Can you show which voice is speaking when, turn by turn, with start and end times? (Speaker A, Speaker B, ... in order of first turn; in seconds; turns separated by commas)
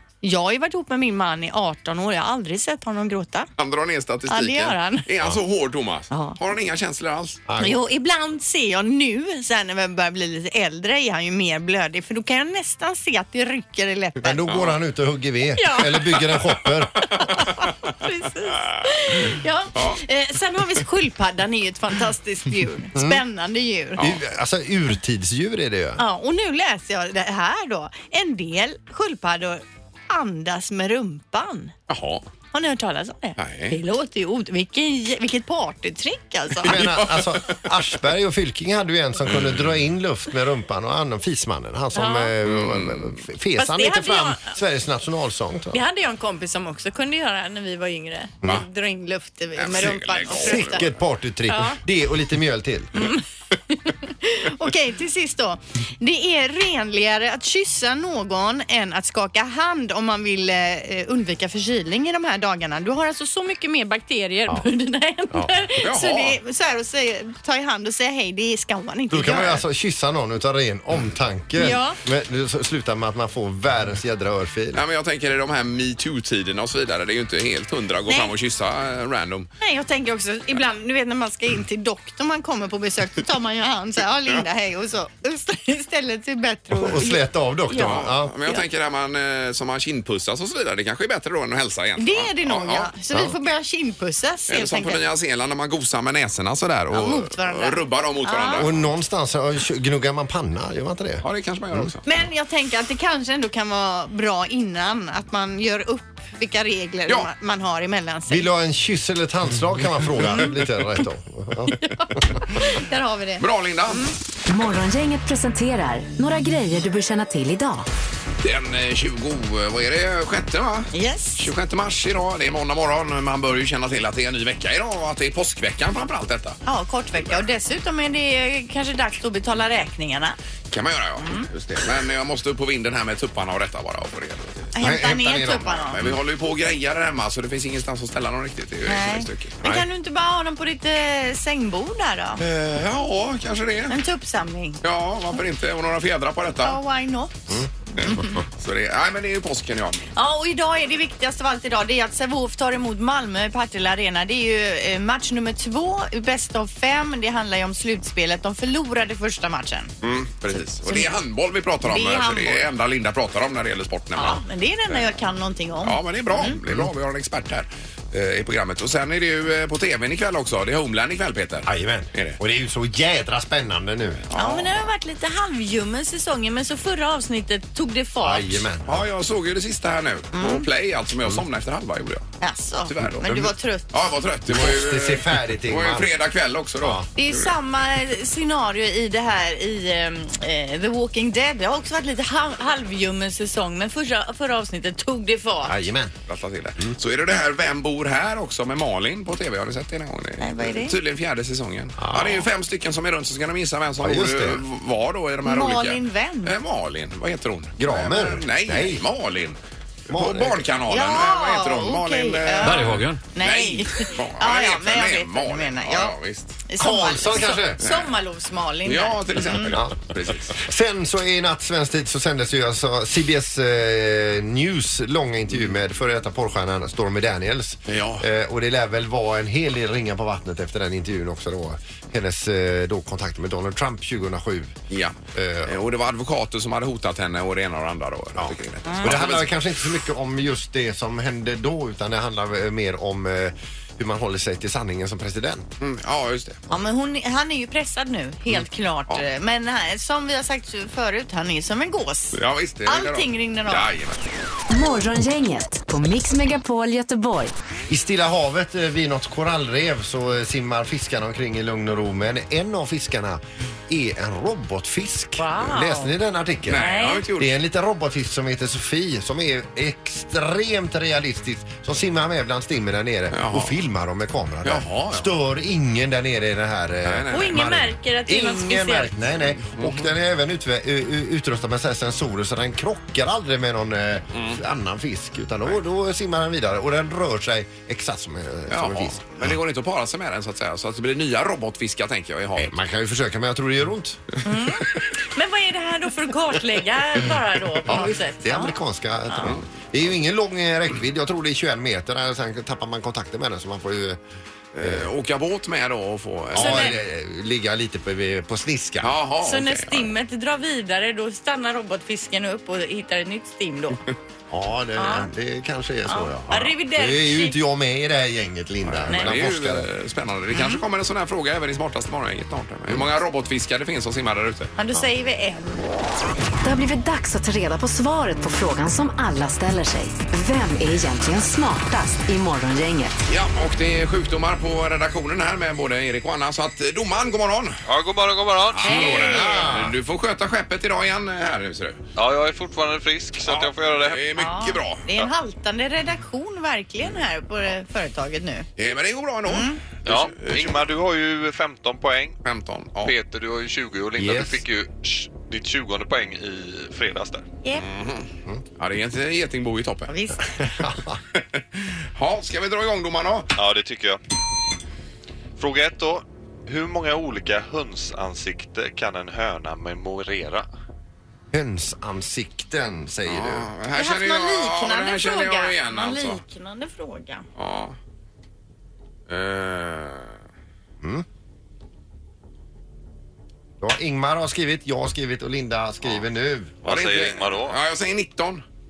Speaker A: 0.2-3.5, Speaker B: 3.6-7.4, Speaker A: 4.3-5.0, Speaker A: 6.1-6.4, Speaker C: 7.5-7.8, Speaker A: 7.6-14.4, Speaker C: 14.2-17.0, Speaker B: 14.5-14.8, Speaker A: 15.6-16.4, Speaker A: 16.9-24.1, Speaker B: 17.0-17.5, Speaker B: 19.7-20.0, Speaker C: 22.9-23.2, Speaker C: 24.0-26.0, Speaker A: 26.0-31.7, Speaker B: 31.9-32.2, Speaker A: 32.5-36.8, Speaker B: 33.4-33.8, Speaker C: 36.6-45.8, Speaker B: 36.6-37.6, Speaker A: 41.9-42.3, Speaker B: 42.4-43.2, Speaker A: 43.6-44.5, Speaker A: 45.7-50.9, Speaker B: 49.5-50.9, Speaker C: 50.4-52.9, Speaker A: 51.5-51.8, Speaker A: 53.0-69.6, Speaker B: 65.8-66.4, Speaker C: 69.1-74.8, Speaker A: 71.6-72.0, Speaker B: 74.7-79.5, Speaker A: 79.6-88.6, Speaker C: 86.7-88.3, Speaker B: 87.7-92.9, Speaker A: 92.0-95.0, Speaker B: 94.5-98.9, Speaker A: 96.9-98.7, Speaker C: 98.5-101.9, Speaker B: 101.2-102.0, Speaker A: 102.0-108.5, Speaker C: 108.3-112.2, Speaker A: 111.7-114.1, Speaker B: 113.4-114.0, Speaker D: 114.5-117.8, Speaker B: 118.4-126.6, Speaker A: 120.9-121.4, Speaker A: 126.7-130.4, Speaker B: 130.7-134.7, Speaker A: 131.2-131.5, Speaker A: 134.7-136.0, Speaker C: 134.8-136.1, Speaker B: 135.8-139.7, Speaker A: 138.8-142.4, Speaker B: 142.4-143.9, Speaker A: 143.9-144.8, Speaker B: 144.8-146.8, Speaker A: 146.6-148.4, Speaker B: 148.0-150.1, Speaker A: 150.2-159.9, Speaker B: 160.0-164.4, Speaker A: 160.6-161.1, Speaker A: 161.8-162.7, Speaker A: 164.1-166.6, Speaker B: 165.8-172.4, Speaker C: 171.7-174.2, Speaker B: 174.3-174.7, Speaker A: 174.3-178.6, Speaker C: 178.2-179.0, Speaker B: 178.8-182.3, Speaker A: 180.3-180.7, Speaker A: 182.4-184.1, Speaker B: 182.9-187.5, Speaker C: 184.5-186.1, Speaker C: 186.8-187.0, Speaker A: 187.2-195.8, Speaker C: 195.7-196.1, Speaker B: 196.3-209.6, Speaker A: 200.4-201.0, Speaker C: 202.0-202.5, Speaker C: 204.0-204.6, Speaker A: 205.4-206.5, Speaker C: 207.8-209.0, Speaker C: 210.1-210.6, Speaker B: 210.1-216.6, Speaker A: 210.9-216.1, Speaker A: 216.7-219.7, Speaker C: 216.8-217.8, Speaker B: 217.8-218.1, Speaker B: 218.8-220.6, Speaker C: 219.7-234.8, Speaker B: 227.9-228.2, Speaker B: 234.9-239.7, Speaker C: 235.3-235.8, Speaker C: 238.4-245.6, Speaker B: 245.8-246.6, Speaker A: 246.7-253.8, Speaker B: 252.3-254.2, Speaker D: 254.7-257.5, Speaker C: 257.9-289.6, Speaker A: 265.4-266.1, Speaker B: 266.7-267.6, Speaker A: 266.7-267.2, Speaker B: 273.3-273.7, Speaker B: 274.6-275.3, Speaker B: 277.0-277.5, Speaker A: 277.3-279.1, Speaker B: 279.6-280.1, Speaker B: 284.3-284.6, Speaker B: 288.7-292.8, Speaker C: 292.6-294.2, Speaker A: 294.4-298.8, Speaker C: 297.9-304.2, Speaker B: 304.7-306.9, Speaker C: 304.8-305.1, Speaker C: 306.5-309.2, Speaker A: 306.6-306.9, Speaker B: 309.0-310.1, Speaker A: 309.4-314.0, Speaker C: 314.5-319.9, Speaker A: 315.0-315.3, Speaker A: 316.1-317.6, Speaker B: 318.8-324.7, Speaker A: 320.5-320.8, Speaker A: 324.8-325.9, Speaker D: 326.6-333.2, Speaker B: 333.3-337.8, Speaker E: 337.9-339.0, Speaker B: 338.7-342.0, Speaker A: 338.8-339.6, Speaker C: 338.9-340.0, Speaker E: 342.1-344.2, Speaker B: 343.4-345.3, Speaker A: 344.4-348.7, Speaker B: 348.8-350.8, Speaker A: 349.5-349.8, Speaker E: 350.0-352.4, Speaker B: 352.4-353.1, Speaker E: 353.0-357.5, Speaker C: 354.2-354.6, Speaker B: 357.8-360.1, Speaker A: 360.1-360.6, Speaker C: 360.5-361.2, Speaker B: 361.3-363.5, Speaker E: 363.5-364.2, Speaker E: 365.6-370.7, Speaker C: 371.5-373.7, Speaker B: 373.3-376.4, Speaker A: 373.9-377.5, Speaker B: 377.6-378.0, Speaker B: 379.3-380.4, Speaker C: 381.0-381.2, Speaker C: 383.8-386.8, Speaker E: 386.8-387.8, Speaker B: 386.8-388.6